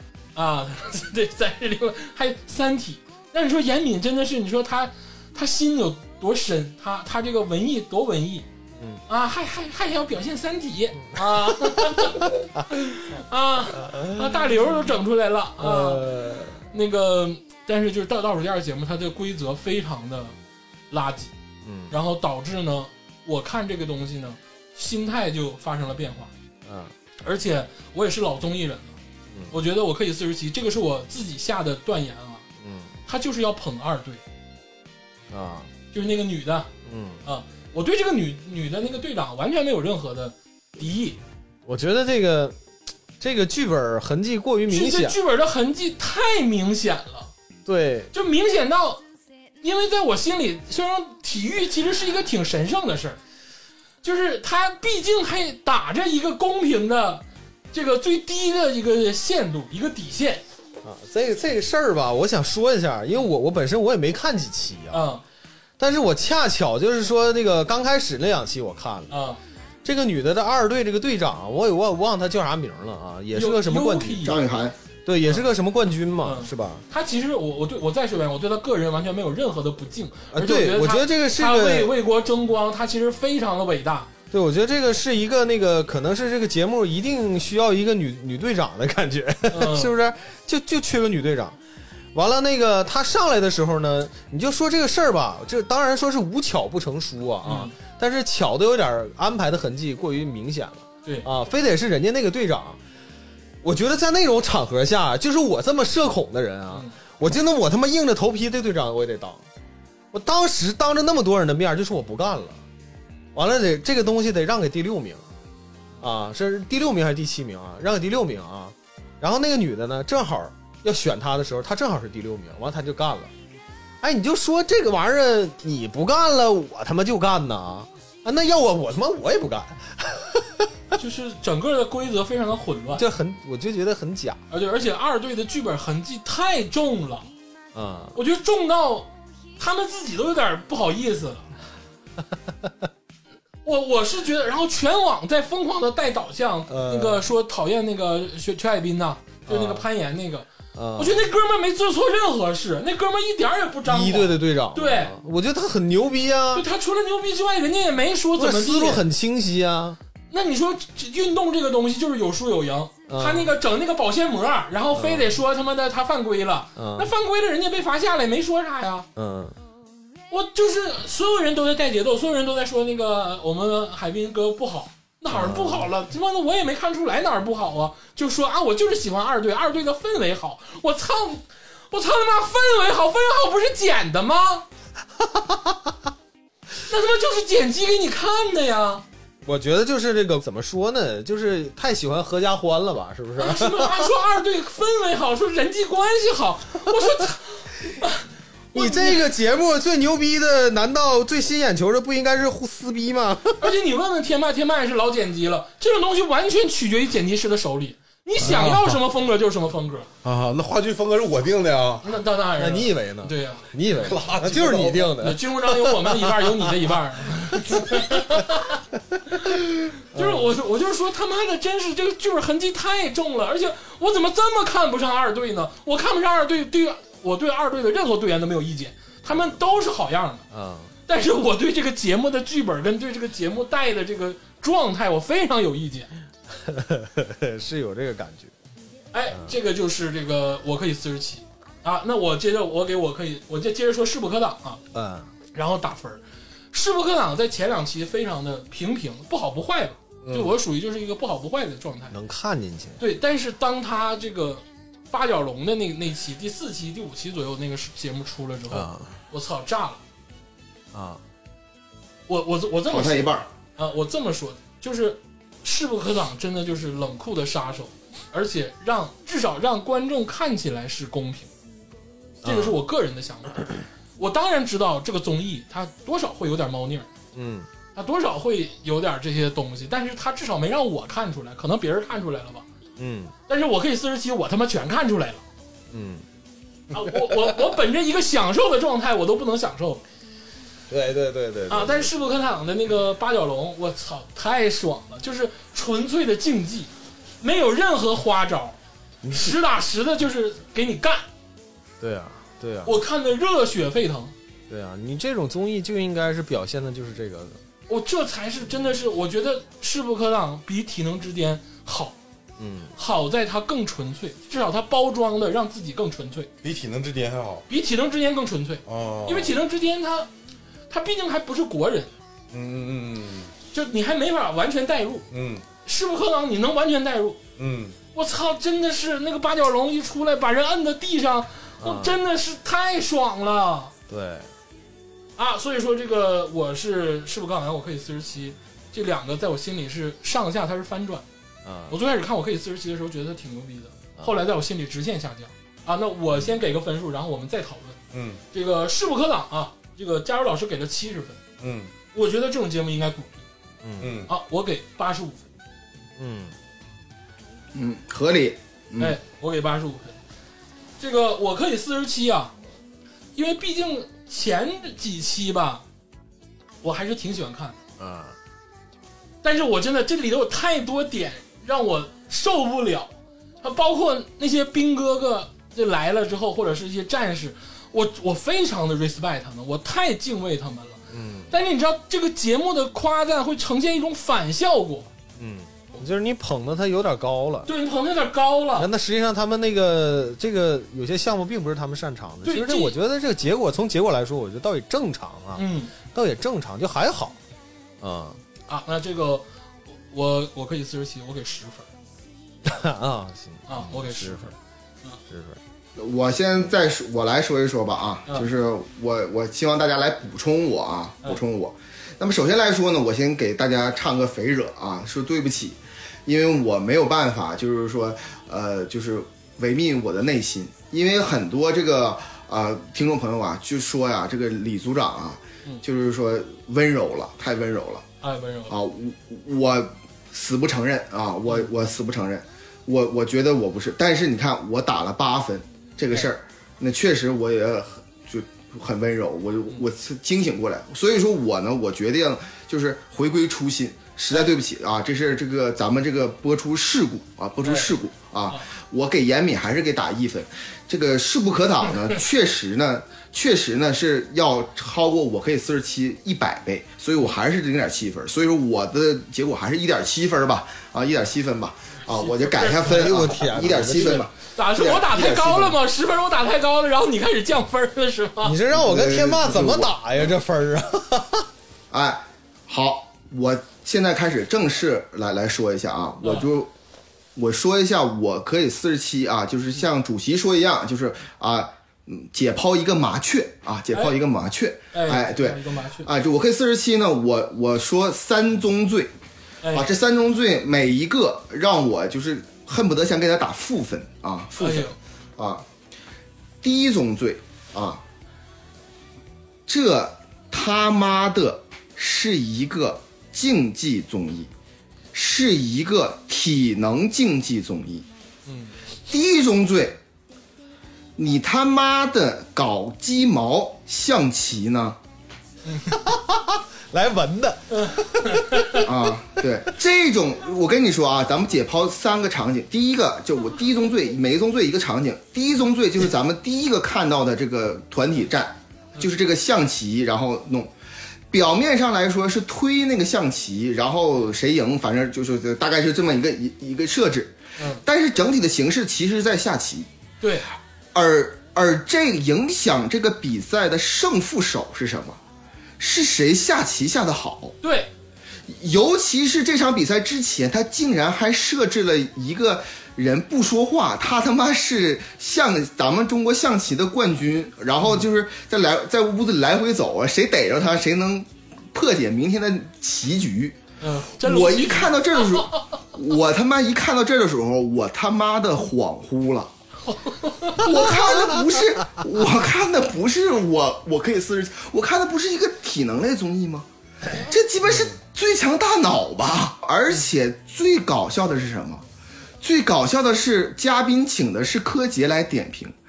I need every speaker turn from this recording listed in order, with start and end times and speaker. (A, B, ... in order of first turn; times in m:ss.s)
0:00.4-0:08.5 A
0:09.1-0:20.4 A
0:11.1-0:12.6 B
0:13.8-0:14.4 B
0:15.6-0:16.6 B
0:20.9-0:21.3 A
0:21.6-0:21.9 B
0:21.9-0:26.3 A
0:26.6-0:26.9 B
0:27.2-0:29.0 A
0:29.5-0:32.4 A
0:32.6-0:32.9 B
0:33.1-0:34.2 A
0:35.3-0:35.7 B
0:35.9-0:36.7 A
0:36.9-0:37.2 B
0:37.2-0:41.2 A
0:41.7-0:42.6 B
0:43.2-0:45.2 B
0:44.7-0:47.3 A
0:47.7-0:48.1 B
0:48.1-0:49.0 A
0:49.6-0:53.2 A
0:54.0-1:00.4 A
1:00.8-1:05.1 B
1:04.9-1:05.2 A
1:05.8-1:09.1 B
1:09.1-1:09.4 A
1:09.8-1:14.3 B
1:13.3-1:14.5 A
1:14.2-1:14.8 C
1:15.0-1:16.8 B
1:16.2-1:24.1 A
1:20.3-1:21.9 B
1:24.3-1:31.6 B
1:29.5-1:29.9 A
1:32.1-1:42.8 B
1:37.4-1:37.7 A
1:43.6-1:49.4 B
1:50.1-1:52.6 B
1:53.3-1:55.2 B
1:56.0-2:03.3 B
2:04.0-2:10.7 B
2:11.0-2:13.0 A
2:13.0-2:14.4 B
2:14.5-2:17.3 A
2:17.8-2:18.2 B
2:18.2-2:21.5 A
2:23.6-2:35.1 A
2:26.7-2:27.3 B
2:29.5-2:29.9 B
2:30.7-2:31.3 B
2:33.9-2:36.7 B
2:36.5-2:39.0 A
2:38.4-2:40.0 B
2:40.3-2:49.1 A
2:43.1-2:43.5 B
2:44.9-2:45.4 B
2:46.8-2:47.1 B
2:49.2-2:49.6 B
2:50.3-3:04.7 A
2:55.3-2:55.9 B
3:05.2-3:05.8 B
3:06.9-3:09.0 A
3:09.4-3:14.1 B
3:13.4-3:19.2 A
3:18.7-3:23.7 B
3:23.6-3:30.1 A
3:28.4-3:29.0 D
3:30.2-3:32.1 D
3:32.0-3:34.1 A
3:32.6-3:36.6 B
3:34.0-3:35.2 D
3:35.2-3:38.8 A
3:37.5-3:38.0 B
3:40.1-3:50.4 A
3:40.1-3:40.5 B
3:50.5-3:50.9 B
3:51.1-3:56.1 A
3:56.5-3:58.5 B
3:59.1-4:04.8 A
4:04.9-4:05.3 B
4:05.5-4:12.2 A
4:12.1-4:13.0 B
4:13.0-4:20.0 A
4:18.7-4:19.2 B
4:20.9-4:21.2 B
4:22.3-4:31.5 A
4:22.9-4:23.5 C
4:32.4-4:32.8 B
4:32.4-4:37.1 A
4:37.3-4:37.7 B
4:38.0-4:42.7 A
4:43.0-4:43.3 B
4:43.5-4:45.4 A
4:45.9-4:46.2 B
4:46.9-4:50.0 A
4:47.1-4:47.5 B
4:50.9-4:52.1 B
4:51.7-4:58.8 A
4:59.2-4:59.6 B
4:59.3-5:01.2 A
5:02.0-5:02.9 B
5:02.8-5:04.3 A
5:04.7-5:07.6 B
5:07.9-5:12.2 A
5:12.6-5:13.0 B
5:13.0-5:16.5 A
5:16.6-5:17.7 D
5:17.7-5:20.3 A
5:18.9-5:19.6 D
5:20.9-5:22.1 A
5:22.5-5:23.5 D
5:23.7-5:25.3 A
5:25.3-5:25.6 D
5:25.8-5:27.4 A
5:27.6-5:28.0 D
5:28.1-5:33.9 A
5:31.8-5:32.2 B
5:34.1-5:34.5 B
5:35.4-5:41.2 A
5:41.6-5:42.0 B
5:41.9-5:48.0 A
5:48.1-5:48.4 D
5:48.5-5:51.4 A
5:51.6-5:51.9 D
5:52.1-5:53.4 A
5:53.8-5:54.2 B
5:54.0-5:54.3 D
5:54.3-5:55.4 A
5:56.2-5:56.5 B
5:57.8-5:59.2 C
5:59.0-6:00.2 A
6:01.0-6:02.5 A
6:03.4-6:05.8 A
6:06.8-6:07.8 A
6:08.0-6:08.4 B
6:09.4-6:21.0 A
6:21.1-6:21.5 B
6:21.5-6:25.1 A
6:25.4-6:27.7 B
6:27.7-6:28.9 A
6:28.8-6:37.4 B
6:32.4-6:32.9 A
6:35.6-6:35.9 A
6:38.0-6:38.4 B
6:38.7-6:39.4 A
6:40.1-6:41.9 A
6:42.6-6:44.5 B
6:43.7-6:45.2 A
6:45.3-6:45.6 B
6:46.0-7:08.0 C
7:08.2-7:08.8 A
7:08.7-7:45.8 C
7:27.6-7:27.9 A
7:42.1-7:43.2 A
7:42.8-7:44.3 B
7:44.0-7:48.6 A
7:48.4-7:51.5 B
7:48.7-7:49.9 C
7:51.9-7:56.7 C
7:56.2-7:56.5 A
7:57.4-8:09.1 C
8:04.9-8:06.1 A
8:09.6-8:09.9 A
8:09.7-8:15.7 C
8:14.6-8:15.0 A
8:16.6-8:18.0 C
8:19.7-8:24.5 C
8:25.1-8:28.1 C
8:28.5-8:28.7 A
8:29.1-8:30.0 C
8:31.2-8:35.0 C
8:35.6-8:36.0 A
8:35.9-8:39.1 B
8:37.7-8:38.8 A
8:38.8-8:50.7 C
8:51.3-8:59.9 C
8:57.6-8:57.8 A
9:00.2-9:00.5 A
9:00.9-9:05.2 C
9:05.8-9:07.6 C
9:07.6-9:07.9 A
9:08.5-9:23.6 C
9:23.8-9:25.6 A
9:24.2-9:29.5 C
9:29.8-9:30.9 A
9:30.6-9:36.7 C
9:37.2-9:41.8 C
9:42.4-9:45.8 C